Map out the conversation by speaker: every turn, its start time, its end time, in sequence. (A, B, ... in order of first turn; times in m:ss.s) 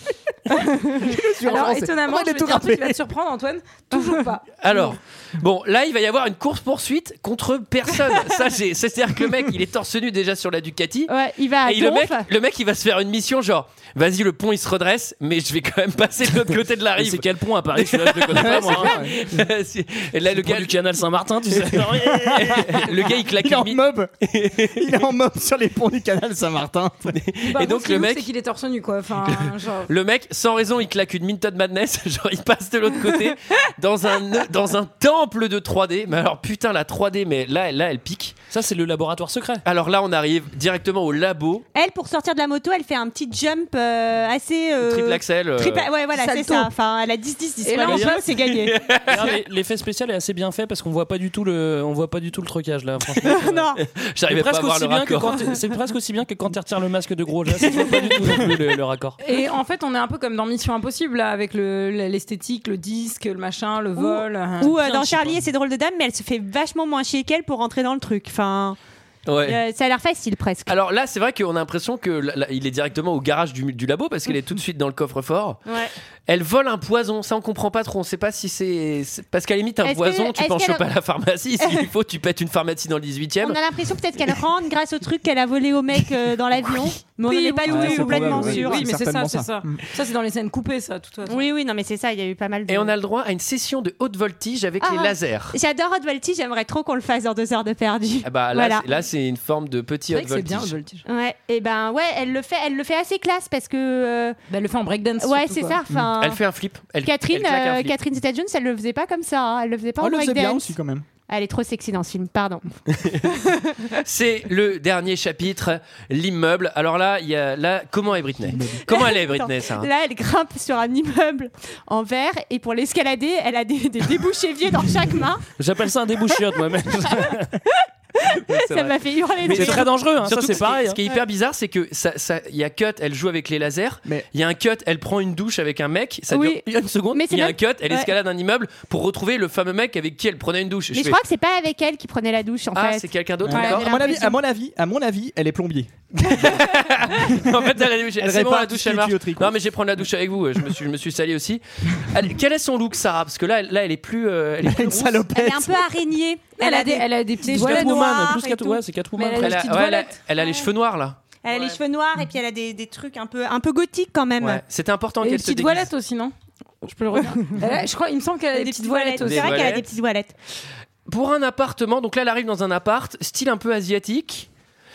0:00.5-0:03.0 A
0:01.4-0:04.5 B
0:04.6-0:11.1 C
0:11.1-0:12.3 D
0:11.6-0:20.8 C
0:17.0-0:19.0 E
0:18.3-0:19.2 A
0:20.3-0:22.9 E
0:21.7-0:24.9 C
0:22.4-0:27.2 A
0:27.1-0:28.3 C
0:27.4-0:29.9 B
0:29.2-0:38.4 C
0:38.5-0:39.6 E
0:39.6-0:41.7 C
0:41.7-0:48.9 D
0:44.8-0:45.9 C
0:46.1-0:46.7 B
0:47.6-0:48.3 B
0:47.8-0:48.2 E
0:48.4-0:49.4 C
0:49.1-0:53.8 E
0:53.2-0:53.8 D
0:53.8-0:55.5 C
0:54.3-0:59.2 E
0:59.2-1:04.9 B
1:04.0-1:08.8 D
1:05.0-1:05.3 E
1:09.3-1:09.6 C
1:09.4-1:10.8 D
1:10.7-1:15.6 C
1:15.7-1:15.9 D
1:16.3-1:23.6 C
1:19.8-1:20.9 D
1:21.6-1:21.9 D
1:23.4-1:28.8 D
1:27.2-1:31.5 B
1:27.7-1:29.8 A
1:31.3-1:32.9 D
1:32.7-1:35.6 C
1:34.8-1:38.9 D
1:38.2-1:40.8 C
1:40.1-1:41.1 B
1:41.1-1:44.4 D
1:44.5-1:45.8 B
1:45.2-1:46.4 D
1:46.2-1:48.0 C
1:47.0-1:50.8 D
1:50.0-1:51.0 A
1:51.3-1:52.7 D
1:53.0-1:53.2 C
1:53.3-1:53.9 D
1:54.0-1:59.9 C
1:58.5-1:58.8 A
1:58.8-2:05.4 D
2:05.6-2:07.6 E
2:08.2-2:09.9 D
2:09.4-2:11.0 E
2:09.4-2:21.2 C
2:16.3-2:18.1 D
2:20.9-2:24.3 D
2:22.7-2:23.9 C
2:23.5-2:25.9 A
2:26.2-2:35.3 C
2:28.2-2:29.6 A
2:34.6-2:35.8 A
2:35.3-2:38.8 D
2:36.6-2:38.4 B
2:37.4-2:39.6 E
2:39.2-2:40.2 B
2:39.4-2:41.2 C
2:40.4-2:40.7 D
2:41.4-2:44.6 D
2:44.4-2:45.9 C
2:45.2-2:49.8 B
2:48.5-2:50.3 D
2:49.2-2:49.9 C
2:51.1-2:54.5 C